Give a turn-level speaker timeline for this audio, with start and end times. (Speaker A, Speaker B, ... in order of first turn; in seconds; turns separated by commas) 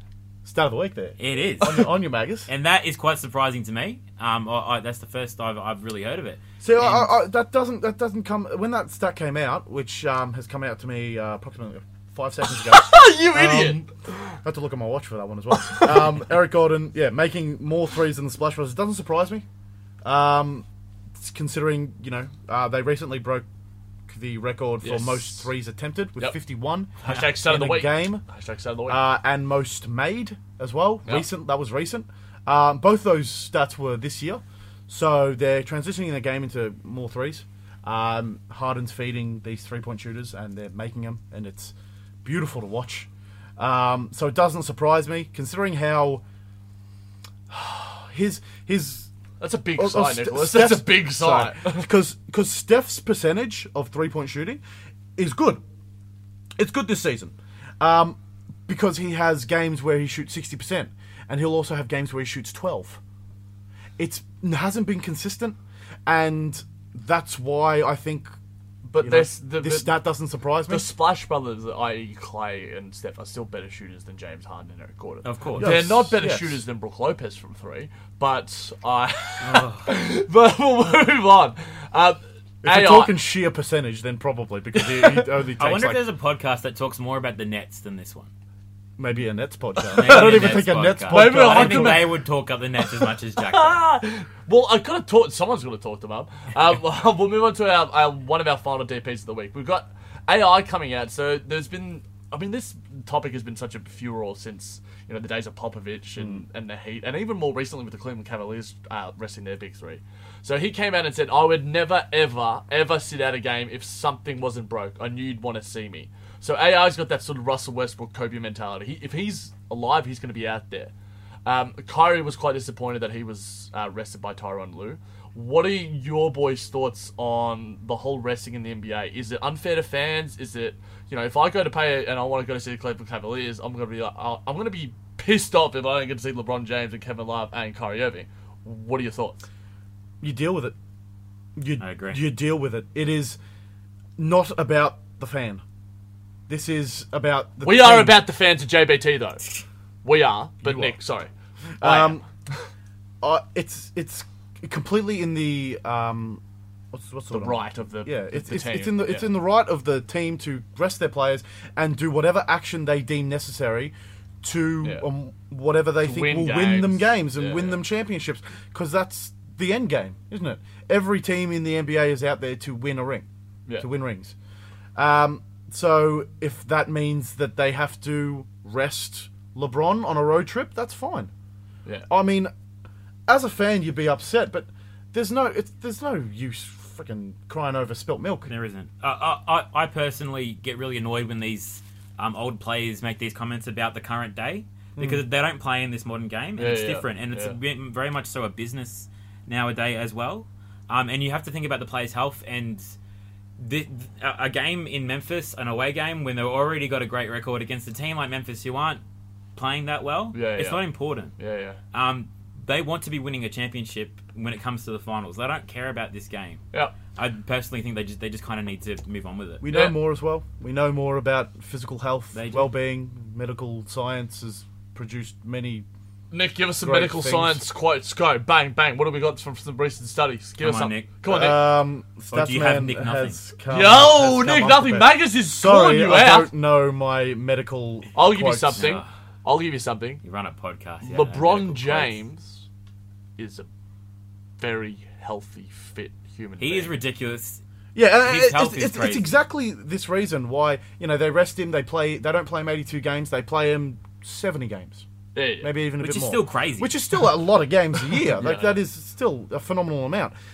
Speaker A: 0.5-2.5, Speaker B: 1.2-7.0, Speaker A: 6.6-19.4, Speaker C: 12.5-14.2, Speaker C: 15.5-16.2, Speaker A: 20.0-23.5, Speaker A: 24.1-28.2, Speaker C: 24.8-25.5, Speaker C: 27.0-29.0, Speaker A: 28.9-46.2, Speaker A: 47.5-49.1, Speaker C: 49.4-51.9, Speaker A: 49.8-54.6, Speaker A: 55.2-55.6, Speaker A: 56.6-63.0, Speaker A: 64.0-68.3, Speaker C: 68.9-70.0, Speaker A: 69.0-70.9, Speaker C: 70.7-83.2, Speaker B: 75.2-75.8, Speaker A: 75.5-76.6, Speaker B: 79.4-79.9, Speaker A: 82.6-86.0, Speaker C: 84.8-85.3, Speaker B: 85.6-88.3, Speaker A: 89.0-92.1, Speaker C: 89.9-92.2, Speaker B: 89.9-93.8, Speaker C: 92.8-120.9, Speaker C: 121.5-139.5, Speaker A: 140.2-140.8, Speaker A: 141.6-143.4, Speaker B: 141.8-142.2, Speaker A: 144.2-145.6, Speaker A: 146.5-148.2, Speaker C: 147.6-149.5, Speaker C: 150.0-152.2, Speaker A: 150.6-151.0, Speaker A: 151.8-152.2, Speaker A: 153.2-156.4, Speaker A: 156.9-173.3, Speaker C: 157.3-159.3, Speaker C: 166.0-167.8, Speaker A: 173.8-174.3, Speaker A: 175.0-181.3, Speaker A: 182.1-182.5, Speaker A: 183.3-188.5, Speaker B: 188.5-202.9, Speaker A: 195.0-195.3, Speaker C: 196.6-197.6, Speaker B: 203.6-209.0, Speaker B: 209.6-211.3, Speaker C: 210.3-210.8, Speaker C: 211.4-211.8, Speaker B: 211.9-216.6, Speaker B: 217.2-219.7, Speaker A: 219.6-225.9, Speaker B: 222.3-222.7, Speaker C: 226.3-231.7, Speaker A: 226.8-227.6, Speaker B: 230.6-231.1, Speaker A: 231.3-238.9, Speaker B: 232.3-233.4, Speaker C: 233.7-236.5, Speaker C: 238.2-240.2, Speaker B: 238.8-239.1, Speaker B: 240.2-242.2, Speaker C: 241.0-242.7, Speaker C: 243.4-243.7, Speaker C: 244.6-246.9, Speaker B: 246.6-247.6, Speaker A: 247.9-255.1, Speaker B: 248.2-249.3, Speaker C: 255.3-255.7, Speaker A: 255.6-260.3, Speaker B: 256.0-256.9, Speaker C: 258.3-258.8